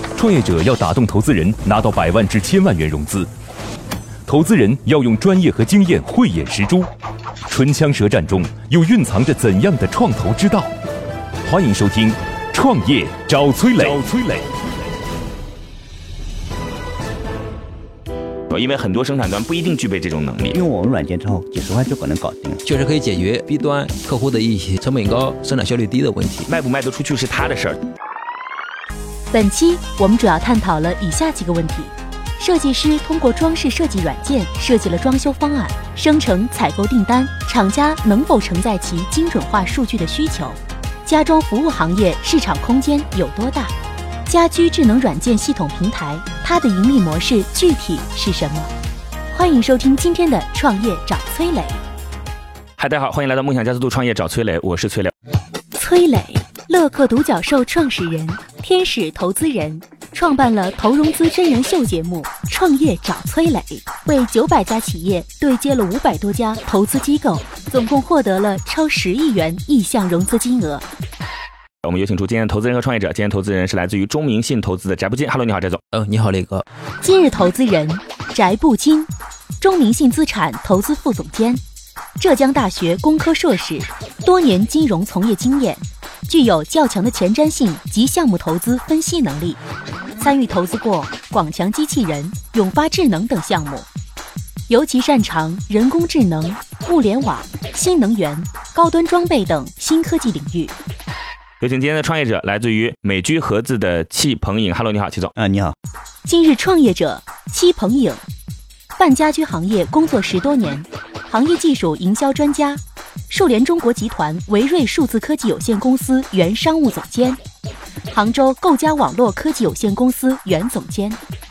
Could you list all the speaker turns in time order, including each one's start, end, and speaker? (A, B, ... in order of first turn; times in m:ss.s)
0:00.1-0:03.3 A
0:04.3-0:06.9 A
0:07.5-0:10.7 A
0:11.4-0:14.4 A
0:18.5-0:20.6 B
0:20.5-0:22.6 C
0:22.6-0:26.5 D
0:26.5-0:27.8 B
0:29.3-0:43.7 E
0:44.3-0:48.7 E
0:49.3-0:51.8 E
0:52.8-0:55.1 B
0:55.7-1:10.8 E
1:11.8-1:15.8 B
1:15.9-1:16.6 D
1:17.0-1:21.6 E
1:22.2-1:29.6 E
1:30.2-1:33.9 E
1:34.7-1:40.7 E
1:41.6-1:45.3 B
1:45.4-1:45.7 C
1:46.2-1:48.2 E
1:49.0-1:57.4 E
1:58.1-2:01.2 E